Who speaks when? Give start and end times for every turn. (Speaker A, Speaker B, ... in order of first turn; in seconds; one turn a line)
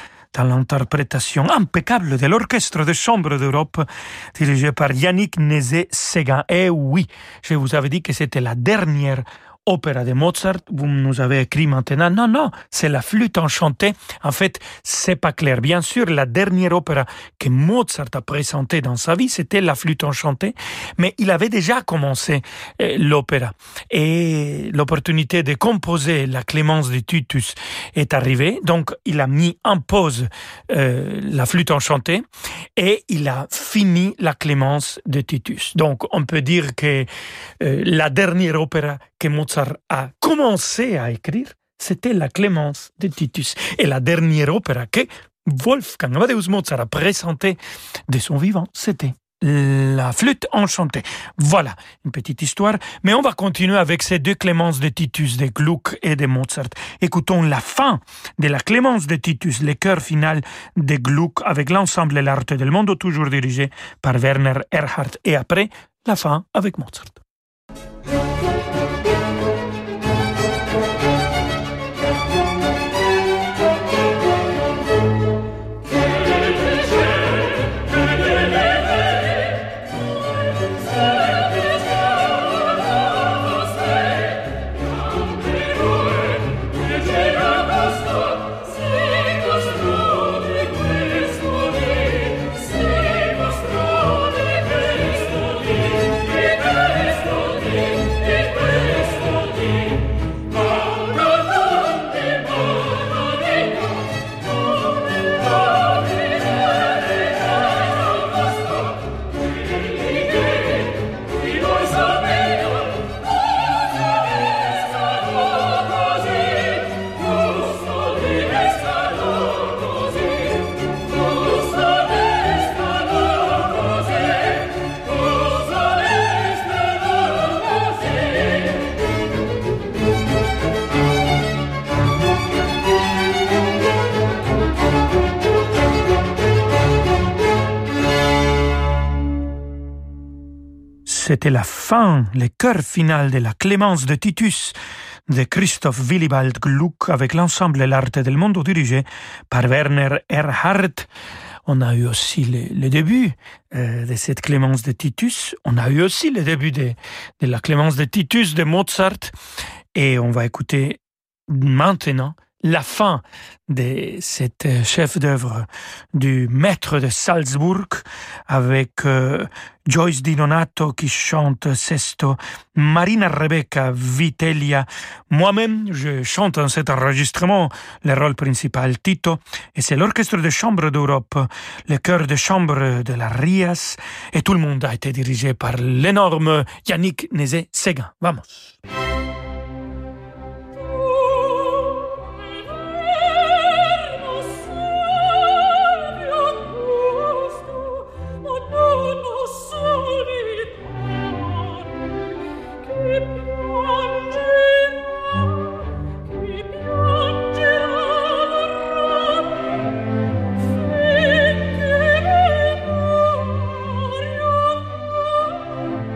Speaker A: 0.3-67.2
Speaker A: 141.1-144.8
Speaker A: 145.3-151.1
Speaker A: 151.7-159.3
Speaker A: 159.9-188.7
Speaker A: 191.6-192.0
Speaker A: 195.2-196.7
Speaker A: 197.2-197.5
Speaker A: 198.7-200.7
Speaker A: 203.2-204.4
Speaker A: 206.6-208.2